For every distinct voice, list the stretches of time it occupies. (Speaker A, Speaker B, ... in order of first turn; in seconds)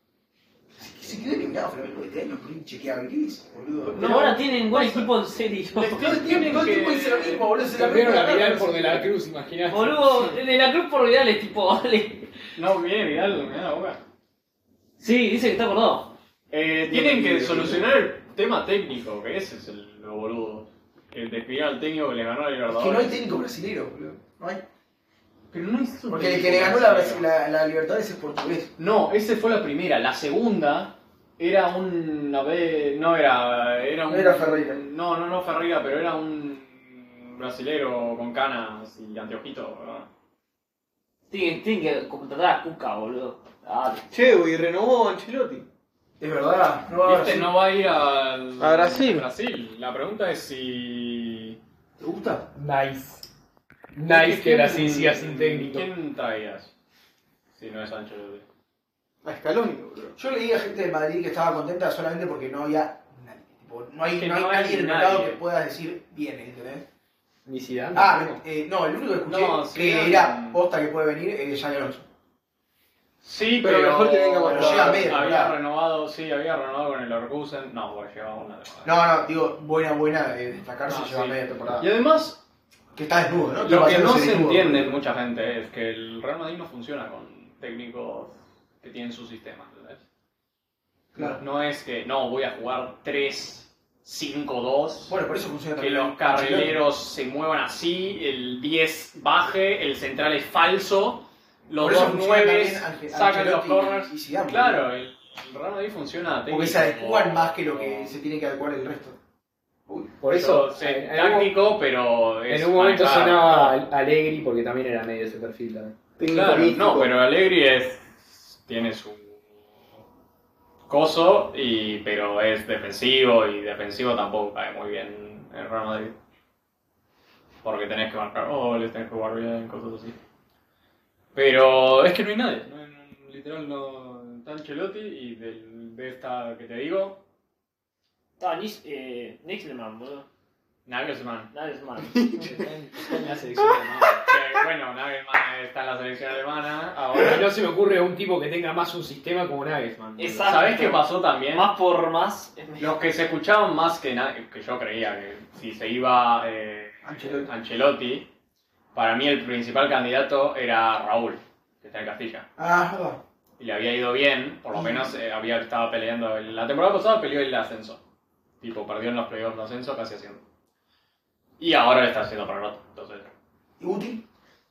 Speaker A: 0.8-4.1, 6.0-9.1, 16.9-17.8, 22.7-24.6, 26.1-28.7, 34.1-34.8, 46.2-47.5, 52.0-52.5, 60.2-66.9, 67.9-72.1, 74.4-75.6, 78.8-81.9, 83.0-85.0, 91.2-91.4, 95.1-96.8, 101.8-104.9, 106.5-109.2, 109.9-110.2, 157.0-157.5, 162.6-163.2, 164.7-165.1, 173.8-174.2
Speaker B: 3.9-6.2, 9.7-12.3, 15.0-16.1, 41.3-44.1, 138.4-140.3, 141.5-142.3, 150.2-152.9
Speaker C: 4.0-5.1, 5.8-7.5, 12.6-14.0, 16.5-23.2, 25.5-27.3, 28.8-40.1, 47.0-51.6, 54.1-56.7, 57.6-58.4, 64.1-65.4, 69.2-70.6, 73.2-79.0, 80.9-82.4, 83.6-90.0, 91.2-95.2, 95.8-108.2, 110.2-113.8, 116.3-119.4, 120.9-126.1, 127.6-130.2, 131.3-137.2, 140.9-141.5, 144.2-147.5, 150.4-151.7, 152.8-158.3, 158.9-162.5, 163.6-168.0, 168.6-170.4, 171.6-173.3
Speaker D: 7.7-10.3, 52.5-53.3, 53.9-55.9, 67.5-68.4, 110.2-111.5, 112.5-116.0, 142.4-144.2, 147.2-150.6
Speaker E: 44.1-45.7, 48.6-49.3, 59.2-60.2, 73.6-75.2, 116.2-117.1, 142.2-142.6